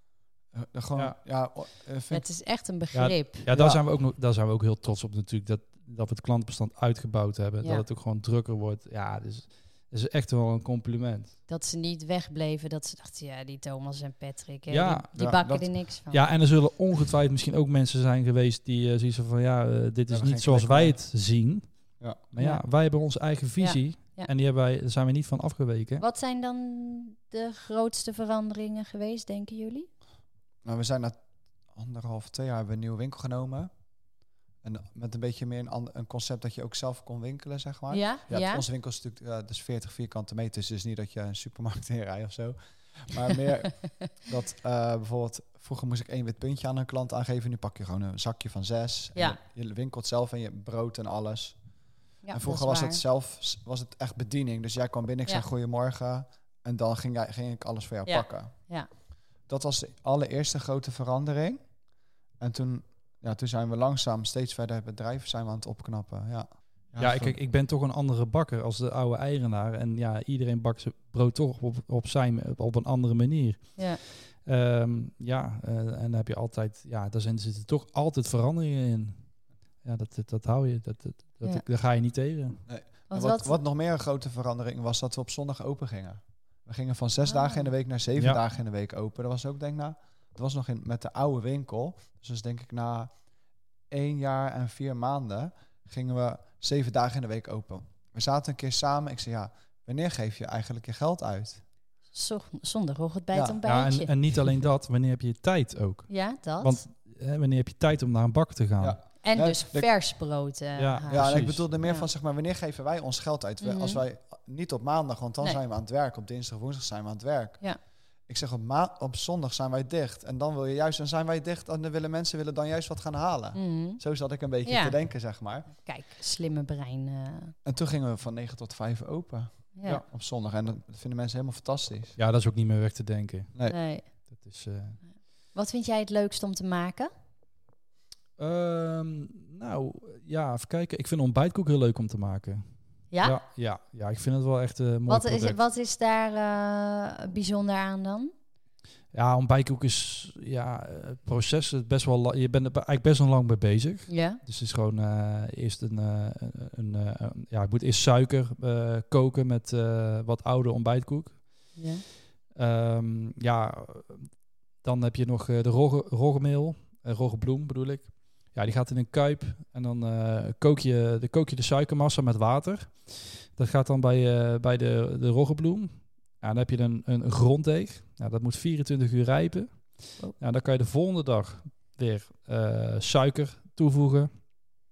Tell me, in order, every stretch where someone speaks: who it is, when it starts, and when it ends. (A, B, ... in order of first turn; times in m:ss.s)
0:00.5-0:02.2 A
0:02.1-0:03.5 B
0:02.9-0:11.4 C
0:03.5-0:03.8 A
0:11.5-0:16.3 B
0:14.7-0:15.1 C
0:15.2-0:15.7 A
0:16.1-0:21.7 C
0:20.1-0:21.0 A
0:22.3-0:26.0 C
0:22.4-0:22.6 B
0:23.6-0:24.3 B
0:26.0-0:29.9 B
0:30.6-0:31.2 A
0:31.7-0:33.7 A
0:34.6-0:51.6 A
0:37.9-0:38.6 B
0:52.2-0:53.0 B
0:52.3-0:58.6 A
0:58.1-0:58.9 B
0:59.5-1:01.6 A
1:02.4-1:07.4 A
1:07.0-1:19.3 C
1:19.8-1:22.6 C
1:22.7-1:33.1 A
1:23.1-1:23.6 B
1:27.2-1:27.7 B
1:33.9-1:41.6 A
1:42.1-1:44.1 B
1:43.3-1:43.6 A
1:43.6-1:49.0 C
1:46.1-1:46.8 B
1:48.8-1:49.9 A
1:49.2-1:52.0 B
1:50.8-1:51.6 C
1:51.1-1:57.6 A
1:53.6-1:54.0 B
1:58.3-2:05.7 A
2:03.5-2:04.0 B
2:04.6-2:05.0 B
2:05.7-2:07.6 B
2:07.6-2:12.2 A
2:09.8-2:10.0 B
2:12.2-2:13.5 C
2:13.7-2:14.1 B
2:14.3-2:15.0 C
2:15.5-2:17.1 B
2:18.4-2:22.6 C
2:23.1-2:23.4 B
2:23.2-2:25.6 C
2:25.1-2:28.3 B
2:29.1-2:41.4 C
2:34.1-2:34.4 B
2:41.8-2:42.0 B
2:42.6-2:44.3 C
2:44.8-3:04.3 C